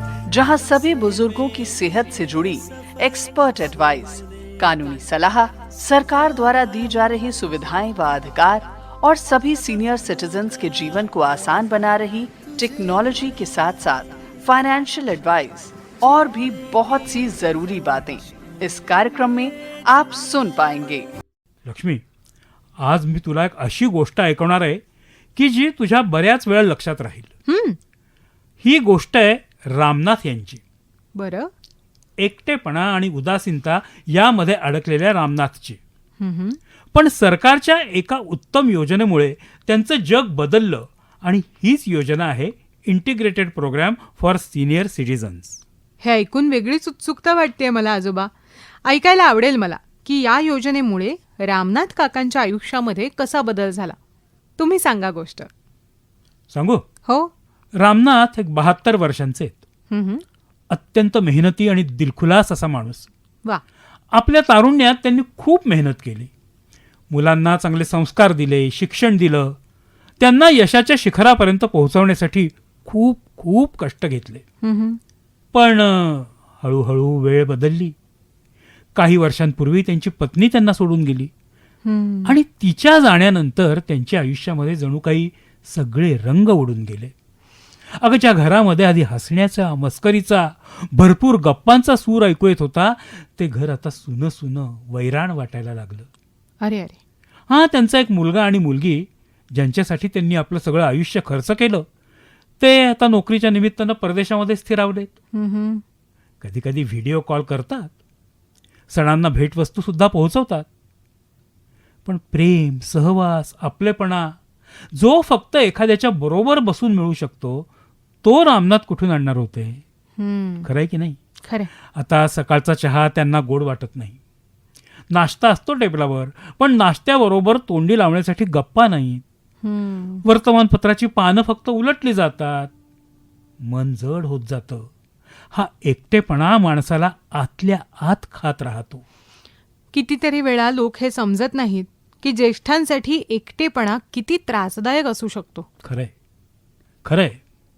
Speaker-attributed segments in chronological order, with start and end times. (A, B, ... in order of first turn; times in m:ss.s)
0:00.3-0:21.1 A
0:21.6-0:22.0 B
0:22.8-0:24.8 B
0:25.4-0:27.3 B
0:27.5-0:27.8 C
0:28.6-0:30.6 B
0:31.2-0:31.5 C
0:32.2-0:35.8 B
0:36.2-0:36.6 C
0:36.9-0:45.6 B
0:46.0-0:48.3 C
0:48.8-0:54.0 C
0:54.6-0:55.5 C
0:56.5-0:56.8 B
0:57.8-0:59.6 B
0:59.9-1:00.2 C
1:00.7-1:03.1 B
1:04.1-1:06.3 B
1:07.1-1:09.6 B
1:10.2-1:14.4 B
1:14.6-1:15.0 C
1:15.5-1:17.9 B
1:19.0-1:21.3 B
1:21.8-1:22.4 C
1:22.2-1:27.1 B
1:28.0-1:36.1 B
1:36.6-1:37.0 C
1:37.5-1:41.9 B
1:42.6-1:45.1 B
1:45.3-1:45.8 C
1:46.4-1:47.9 B
1:48.9-1:50.7 B
1:52.0-1:54.4 B
1:54.9-1:57.7 B
1:58.2-1:59.8 B
2:00.2-2:00.7 C
2:00.6-2:01.2 B
2:01.8-2:04.2 B
2:05.1-2:09.2 B
2:09.6-2:10.2 C
2:10.2-2:12.7 B
2:13.6-2:14.9 B
2:15.5-2:19.0 B
2:19.9-2:25.7 C
2:25.8-2:26.1 B
2:27.0-2:27.4 B